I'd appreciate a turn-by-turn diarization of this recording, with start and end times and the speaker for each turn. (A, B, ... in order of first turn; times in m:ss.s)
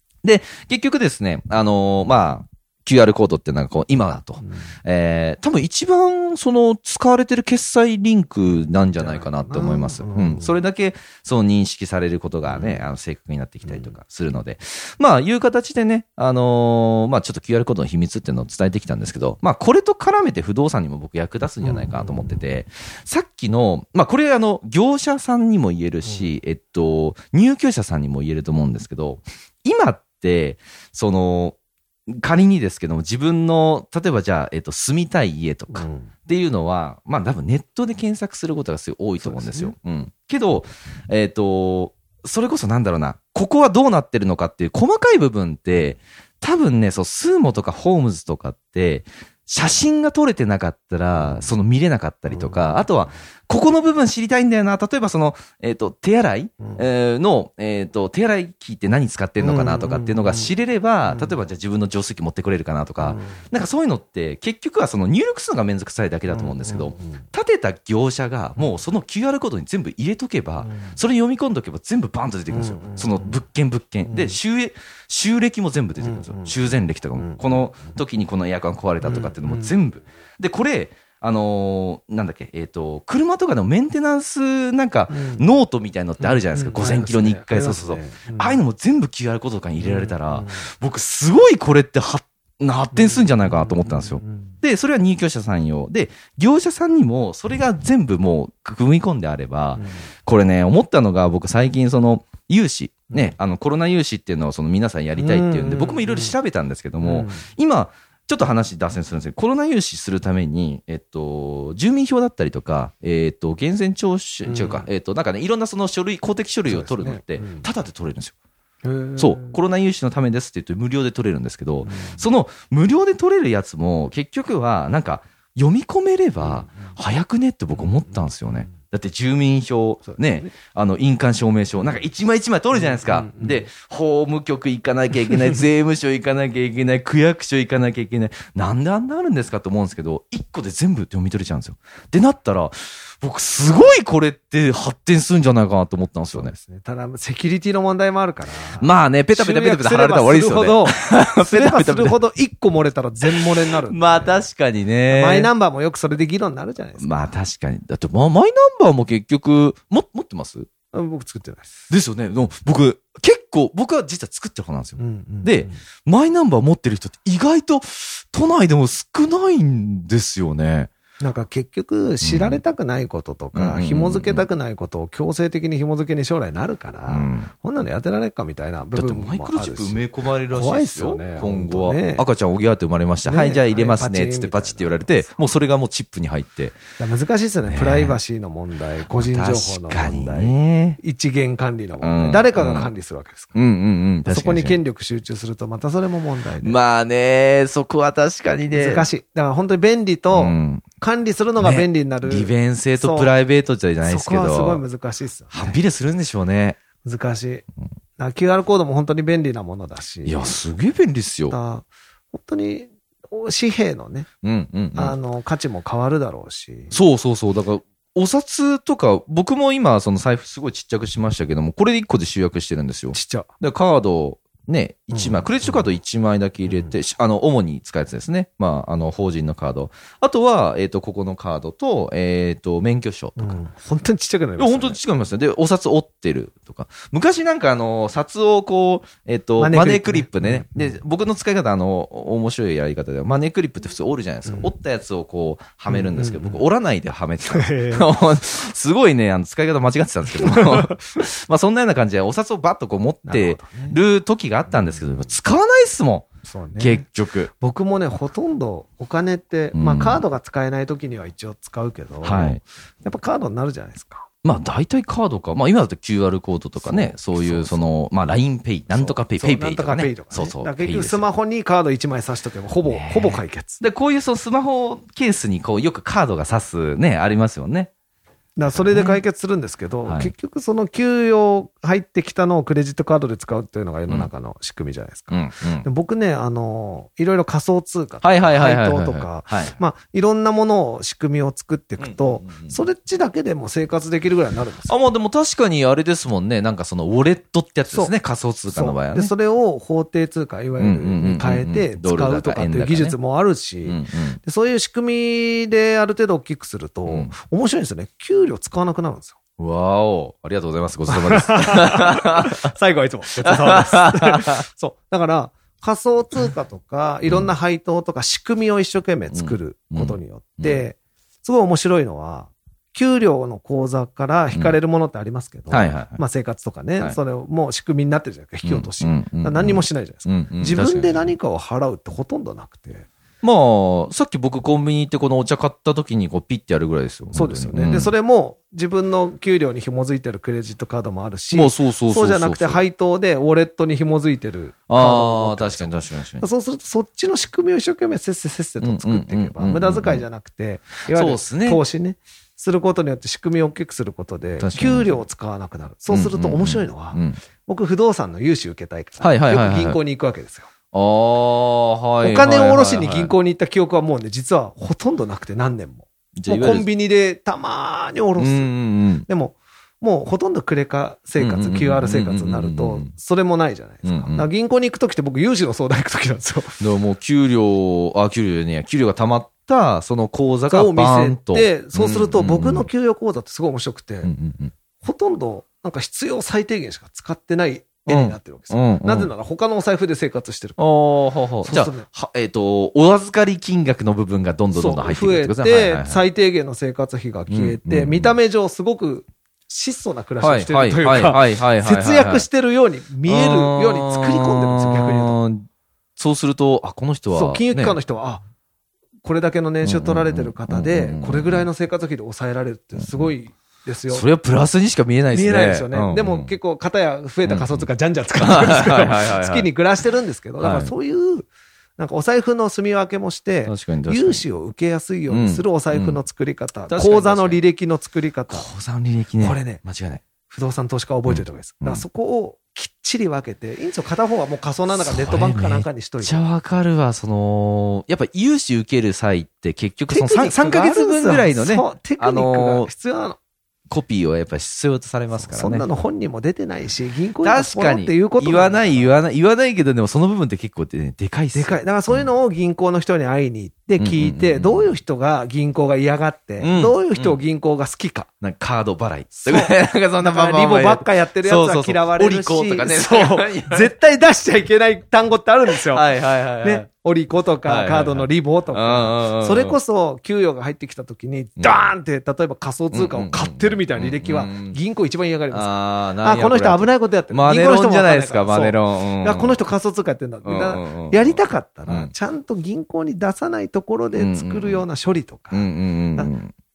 0:00.2-0:31.6 A
0:04.4-0:04.7 B
0:09.0-0:10.5 B
0:12.5-0:12.8 B
0:13.7-0:13.9 B
0:21.6-0:22.4 B
0:32.1-1:58.4 A
0:35.7-0:36.1 B
0:39.2-0:39.8 B
0:52.3-0:52.8 B
0:59.4-1:00.5 B
1:01.1-1:01.4 B
1:03.0-1:03.4 B
1:06.3-1:07.2 B
1:10.6-1:11.0 B
1:12.5-1:13.4 B
1:14.1-1:14.4 B
1:16.0-1:16.5 B
1:17.2-1:17.4 B
1:19.0-1:19.8 B
1:25.1-1:25.4 B
1:26.2-1:28.6 B
1:29.8-1:30.6 B
1:32.9-1:34.6 B
1:39.8-1:40.0 B
1:45.2-1:46.3 B
1:47.0-1:47.5 B
1:54.4-1:54.9 B
1:56.7-1:57.7 B
1:58.8-1:59.6 B
1:59.2-2:26.6 A
2:01.8-2:02.2 B
2:06.4-2:06.9 B
2:10.1-2:10.5 B
2:12.8-2:13.7 B
2:26.3-2:34.4 B
2:28.8-2:32.2 A
2:33.3-2:35.5 A
2:35.1-2:37.4 B
2:37.0-2:40.7 A
2:40.9-2:41.8 B
2:41.9-2:50.9 A
2:45.0-2:45.8 B
2:51.2-3:02.2 B
2:52.2-2:52.6 A
2:53.5-2:54.5 A
2:57.1-2:57.5 A
2:59.0-3:06.8 A
3:03.3-3:05.3 B
3:07.0-3:13.5 B
3:07.7-3:08.2 A
3:09.1-3:11.0 A
3:12.0-3:12.9 A
3:13.5-3:14.8 A
3:14.3-3:16.8 B
3:16.6-3:19.1 A
3:18.7-3:23.3 B
3:20.3-3:20.9 A
3:21.6-3:24.8 A
3:24.0-3:25.8 B
3:25.5-3:26.8 A
3:27.0-3:27.6 B
3:28.2-3:30.6 B
3:30.2-3:31.6 A
3:31.5-3:34.3 B
3:34.4-3:35.2 A
3:35.0-3:37.0 B
3:36.9-3:53.6 A
3:43.1-3:43.5 B
3:45.1-3:45.8 B
3:46.7-3:46.9 B
3:53.4-3:55.0 B
3:54.6-4:17.5 A
3:59.6-4:01.0 B
4:05.9-4:06.6 B
4:07.4-4:08.1 B
4:10.4-4:10.9 B
4:13.3-4:14.0 B
4:14.7-4:15.3 B
4:16.4-4:17.0 B
4:17.6-4:24.3 B
4:19.7-4:20.2 A
4:22.2-4:22.6 A
4:24.4-4:31.2 A
4:26.8-4:27.8 B
4:28.9-4:33.8 B
4:32.9-4:37.9 A
4:38.6-4:54.9 B
4:38.7-4:39.2 A
4:40.1-4:40.3 A
4:45.3-4:45.9 A
4:48.2-4:49.8 A
4:52.0-4:52.8 A
4:54.9-4:59.3 A
4:58.7-5:09.4 B
5:00.8-5:03.2 A
5:03.8-5:04.4 A
5:09.6-5:12.6 A
5:11.1-5:33.1 B
5:13.4-5:14.6 A
5:19.3-5:20.8 A
5:25.7-5:26.2 A
5:28.6-5:31.3 A
5:33.4-5:38.1 A
5:37.3-6:00.7 B
5:41.5-5:42.8 A
5:44.9-5:46.5 A
5:48.8-5:50.2 A
5:51.1-5:51.8 A
5:54.6-5:55.2 A
5:56.1-5:57.4 A
5:59.2-6:00.0 A
6:00.9-6:03.3 A
6:02.2-6:08.7 B
6:06.4-6:06.9 A
6:08.4-6:09.3 A
6:09.2-6:16.8 B
6:11.4-6:13.1 A
6:14.0-6:14.5 A
6:16.8-6:22.9 A
6:20.7-6:24.3 B
6:24.2-6:24.7 A
6:25.0-6:30.8 B
6:28.1-6:29.3 A
6:30.8-6:36.2 A
6:31.6-6:32.1 B
6:34.7-6:45.4 B
6:37.5-6:38.4 A
6:40.4-6:42.5 A
6:43.3-6:48.0 A
6:47.3-6:48.4 B
6:49.2-6:54.3 B
6:49.8-6:51.7 A
6:53.0-6:53.3 A
6:54.1-6:56.5 A
6:55.3-7:01.5 B
6:57.5-6:57.9 A
6:58.4-6:59.7 A
7:00.6-7:00.9 A
7:02.0-7:08.7 B
7:03.7-7:04.4 A
7:05.3-7:06.2 A
7:06.9-7:07.6 A
7:08.5-7:10.2 A
7:09.4-7:09.8 B
7:10.5-7:16.4 B
7:11.3-7:12.0 A
7:15.0-7:22.9 A
7:20.1-7:23.4 B
7:23.9-7:25.9 A
7:25.4-7:29.1 B
7:27.4-7:32.3 A
7:31.5-7:38.3 B
7:34.0-7:34.9 A
7:36.6-7:37.4 A
7:38.4-7:43.9 A
7:39.4-7:46.1 B
7:45.7-7:46.9 A
7:46.6-8:06.3 B
7:47.6-7:49.8 A
7:51.6-7:51.9 A
7:52.9-7:54.8 A
7:55.5-7:59.6 A
8:00.4-8:02.1 A
8:04.2-8:04.8 A
8:05.5-8:06.5 A